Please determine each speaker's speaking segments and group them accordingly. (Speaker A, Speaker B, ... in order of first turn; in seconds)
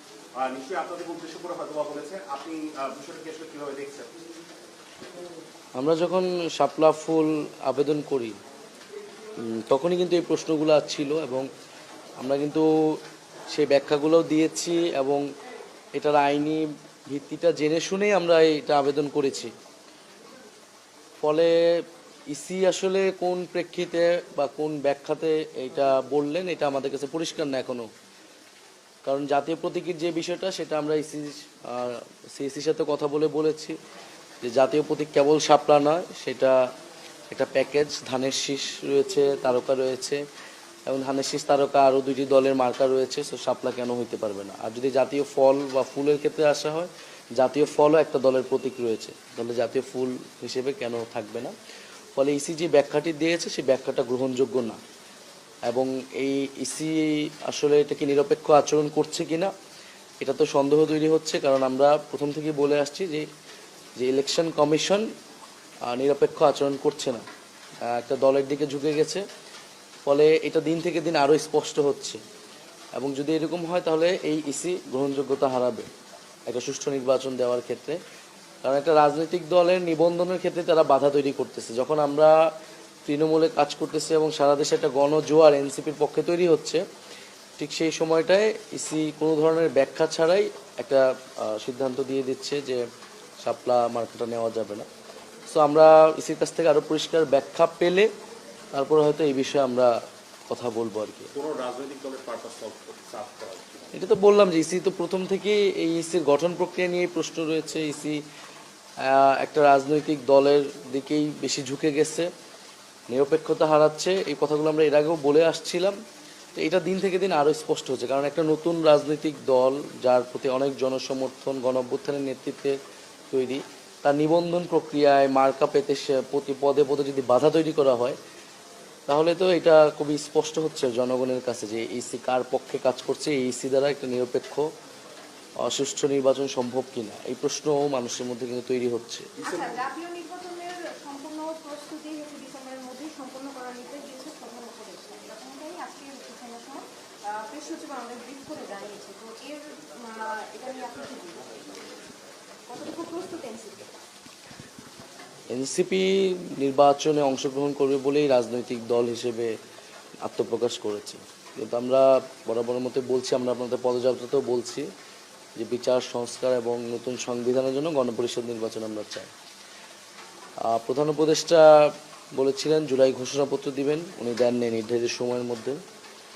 Speaker A: 0.4-4.1, 101.3-104.0, 139.4-139.8
Speaker B: 5.8-8.4, 9.4-11.5, 12.2-12.7, 13.5-15.2, 15.9-19.5, 21.2-27.9, 29.1-33.8, 34.4-36.6, 37.3-40.2, 40.9-51.5, 52.2-54.8, 55.7-59.5, 60.2-63.3, 64.0-65.1, 65.9-67.2, 67.9-69.2, 70.1-72.2, 73.0-75.9, 76.5-78.0, 78.6-82.3, 83.1-86.8, 87.6-92.8, 93.4-94.9, 95.5-98.1, 98.8-99.9, 100.5-101.3, 103.9-108.2, 109.0-112.3, 113.1-116.0, 116.5-122.8, 123.3-128.2, 129.1-134.7, 135.6-139.4, 155.5-159.5, 160.2-164.9, 165.6-169.3, 170.7-175.8
Speaker C: 139.4-151.8, 152.7-153.9